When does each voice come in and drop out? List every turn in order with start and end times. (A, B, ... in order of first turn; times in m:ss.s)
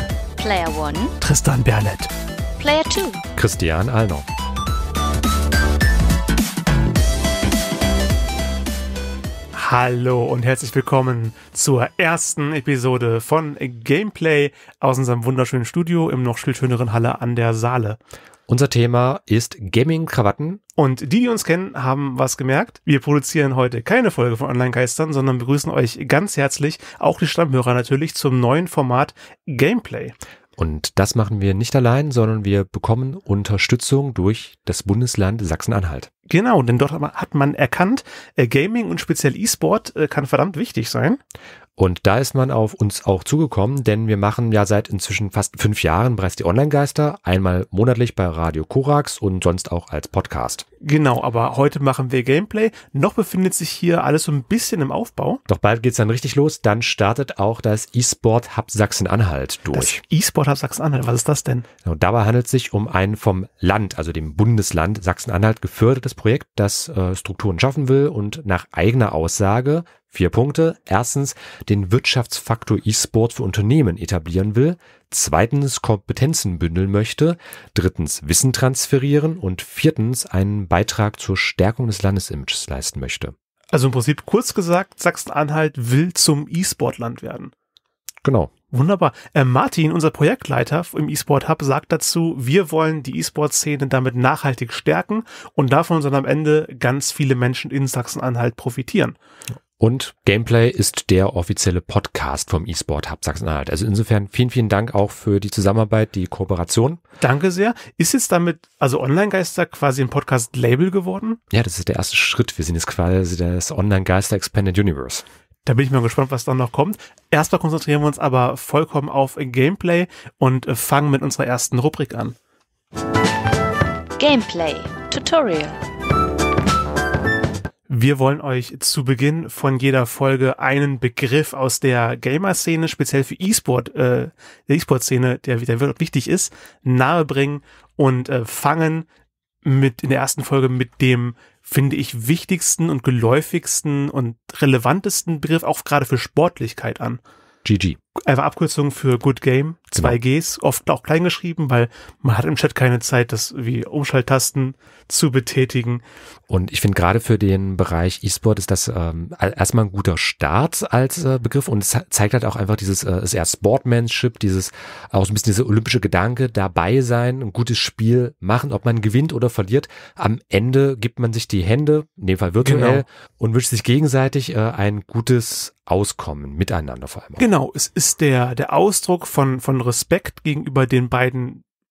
0:00.4-0:01.2 A
0:01.2-0:02.1 B
0:02.6-0:03.2 A
0:03.4-0:04.3 C
0:09.5-0:18.0 B
0:18.5-0:20.6 C
0:20.8-0:30.2 B
0:30.6-0:36.1 C
0:36.3-0:41.2 B
0:41.8-0:50.6 C
0:50.8-0:55.4 B
0:55.5-1:00.0 C
0:59.7-1:01.7 B
1:01.8-1:23.3 C
1:23.7-1:27.5 B
1:28.2-1:28.5 C
1:28.7-1:39.2 B
1:39.8-1:47.0 C
1:47.2-1:51.4 B
1:51.5-1:55.2 C
1:55.7-2:02.4 B
2:04.2-2:05.8 A
2:07.9-2:19.1 B
2:19.6-2:27.2 B
2:27.6-2:28.0 C
2:28.2-2:36.0 B
2:36.5-2:57.4 C
2:52.6-2:53.0 B
2:57.4-3:01.6 B